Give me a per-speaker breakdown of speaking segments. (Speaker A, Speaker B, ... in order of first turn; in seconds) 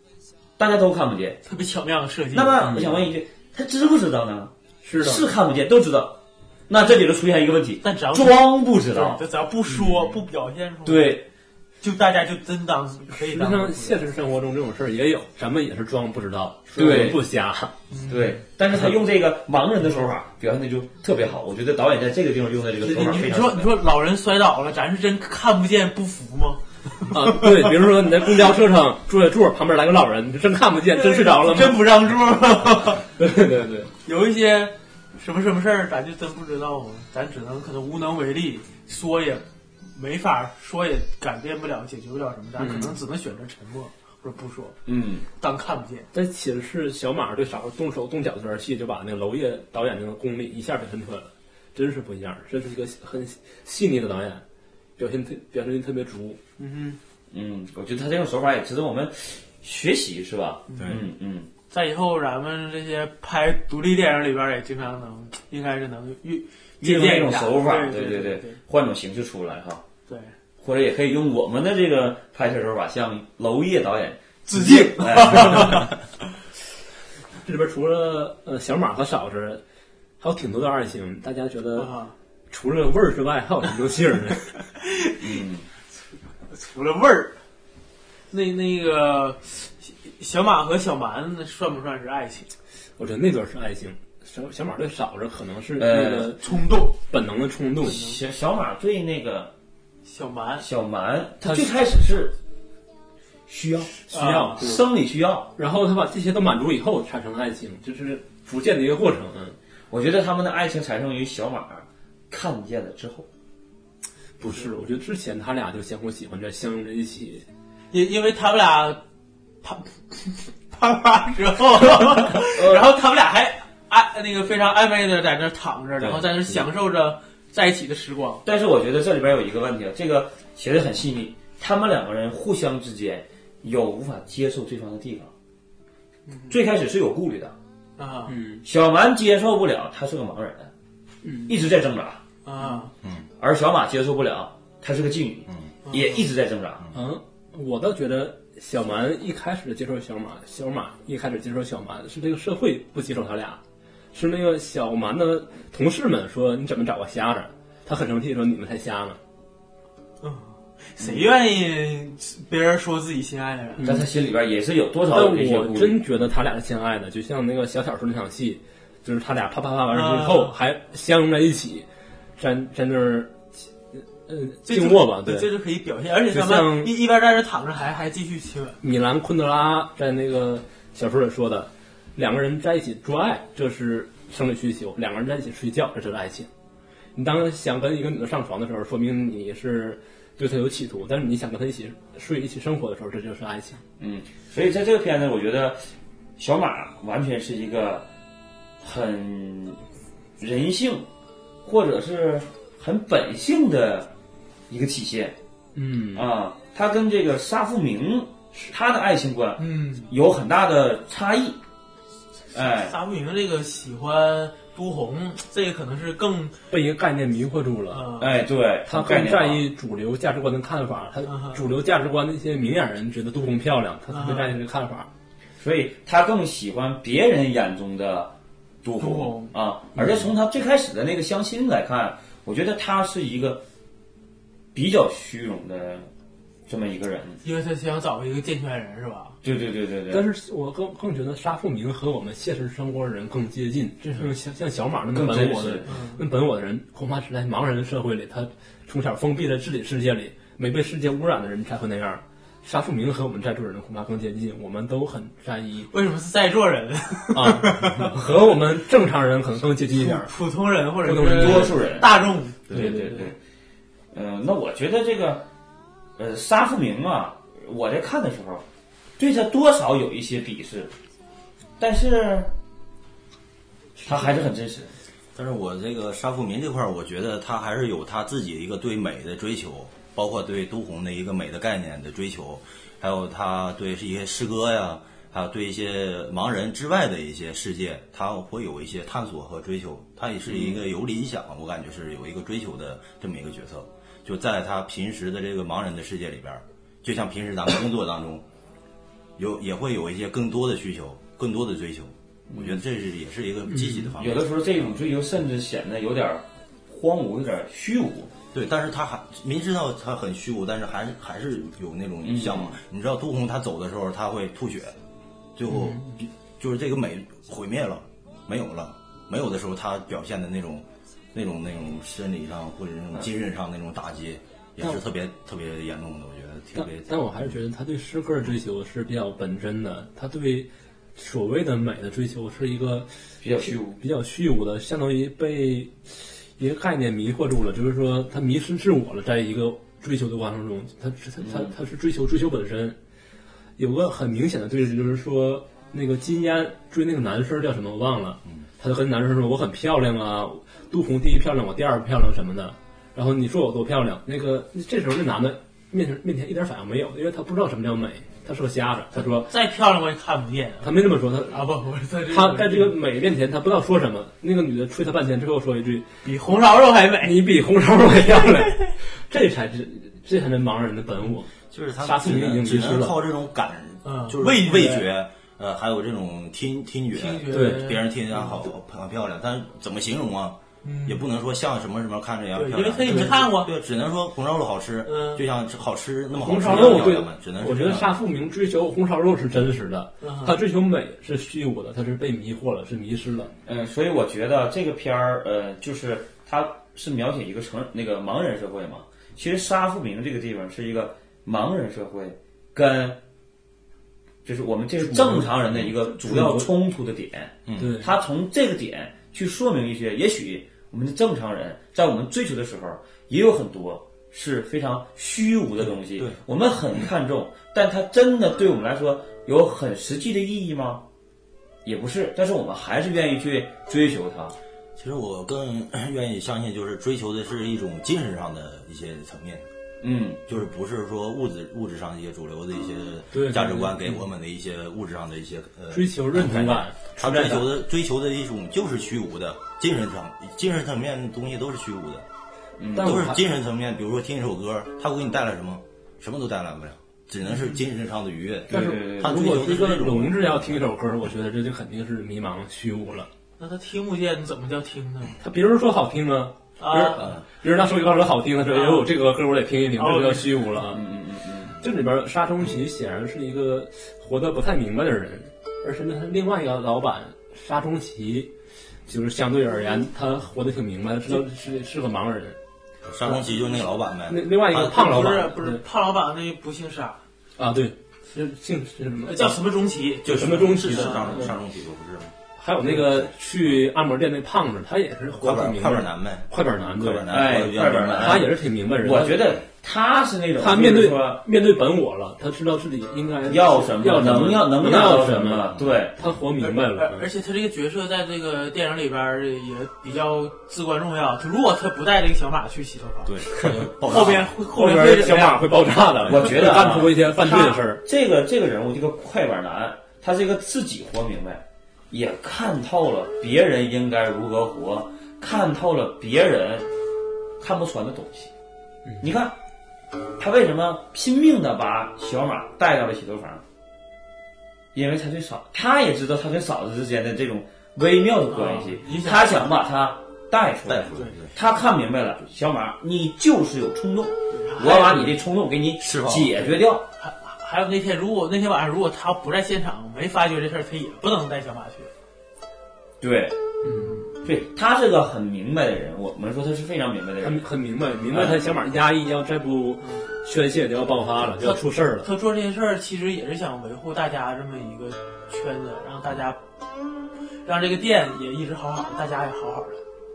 Speaker A: 0.6-1.4, 2.3-6.2, 6.7-9.2, 10.8-11.2, 16.8-17.2, 18.1-23.7, 44.9-45.3, 57.3-61.5, 66.8-69.8, 70.6-75.9, 85.2-85.7, 95.8-96.3, 97.8-99.5, 100.6-102.4, 103.5-105.5, 109.9-113.3, 122.5-122.9, 128.4-135.3, 136.5-137.6, 138.6-140.7, 141.5-142.2, 143.4-146.9, 161.0-161.3, 163.8-166.0, 194.0-198.1, 198.8-199.8, 200.4-201.1, 201.7-204.1, 204.7-205.4, 206.1-211.6, 212.5-212.9, 218.2-219.7, 225.6-233.6, 234.7-236.1, 236.7-237.4, 239.4-240.3, 245.1-245.9, 261.2-263.4, 264.1-265.5, 266.2-268.6, 269.2-270.9, 271.8-272.5, 274.0-274.9, 290.5-290.8, 302.5-302.8, 304.2-308.3, 312.2-312.8, 333.4-334.0, 341.4-341.7, 386.7-387.1, 393.7-403.2, 404.4-421.0, 421.8-424.6, 430.0-430.4, 442.8-443.3, 448.7-449.6, 460.9-461.8, 487.3-491.4, 493.5-496.2, 506.2-516.9, 517.6-518.5, 519.2-519.5, 520.4-523.6, 524.9-537.1, 543.2-543.6, 544.4-547.7, 548.3-548.7
Speaker B: 1.5-2.7, 7.8-11.2, 11.8-14.0, 17.9-18.4, 22.9-27.7, 30.9-33.1, 34.0-44.8, 45.4-46.1, 56.6-57.0, 60.7-61.0, 61.7-68.6, 70.1-70.3, 74.5-75.9, 81.7-82.2, 84.8-85.4, 86.5-87.4, 88.3-92.5, 96.4-97.0, 97.8-98.2, 100.0-100.7, 104.1-104.6, 117.9-119.0, 119.6-128.4, 136.3-136.6, 138.0-138.3, 142.4-142.9, 145.9-146.2, 160.2-163.8, 169.9-170.5, 174.7-178.8, 209.6-210.1, 212.6-216.6, 217.9-218.4, 221.3-221.6, 224.1-224.6, 229.0-229.5, 237.4-239.4, 245.9-246.2, 255.9-258.2, 259.9-263.3, 359.3-363.0, 366.2-367.5, 374.0-375.1, 377.1-378.5, 380.8-381.2, 382.5-383.8, 385.1-385.4, 390.2-390.6, 447.5-447.8, 453.6-455.4, 456.8-457.3, 458.6-459.1, 460.0-460.7, 473.3-473.8, 474.7-477.2, 479.2-481.5, 496.6-505.7, 528.5-529.7, 534.5-535.3, 537.2-542.1, 551.6-556.6, 557.6-560.0
Speaker C: 2.6-3.1, 4.8-5.3, 13.1-17.8, 22.8-23.2, 27.1-31.9, 33.1-33.9, 42.6-43.0, 46.1-54.4, 55.0-56.4, 77.4-79.6, 80.2-81.9, 82.5-84.5, 93.0-96.4, 97.0-98.0, 101.4-101.7, 104.1-104.9, 105.6-109.6, 114.4-117.5, 138.3-138.6, 141.2-141.6, 146.9-153.6, 154.1-159.2, 163.8-164.1, 165.1-171.9, 172.4-175.5, 176.3-176.9, 178.8-186.5, 187.2-193.8, 205.8-206.3, 216.7-218.0, 218.9-225.1, 240.1-255.9, 257.3-260.3, 261.0-261.8, 262.7-263.2, 303.7-304.1, 315.7-316.0, 326.8-333.1, 333.6-343.0, 343.8-359.5, 360.8-361.6, 362.3-366.1, 367.2-371.5, 372.0-373.2, 377.5-377.9, 383.1-383.3, 386.4-393.5, 405.0-406.7, 407.8-408.1, 433.3-434.2, 435.9-437.7, 442.9-443.4, 448.7-453.3, 455.4-461.0, 461.8-468.5, 469.1-472.6, 474.3-475.8, 477.6-479.6, 480.2-481.5, 482.6-487.4, 488.2-489.4, 490.6-497.3, 504.7-508.0, 543.8-544.2, 547.4-552.3
Speaker D: 126.0-126.7, 275.4-298.4, 299.4-305.0, 308.5-315.0, 315.6-327.3, 371.7-388.2, 407.7-407.9, 425.0-429.7, 430.5-442.3, 443.0-450.9, 473.0-475.4, 480.2-483.7, 485.4-488.5, 495.7-496.0, 503.2-504.6, 506.3-506.6, 530.9-531.5, 536.0-536.7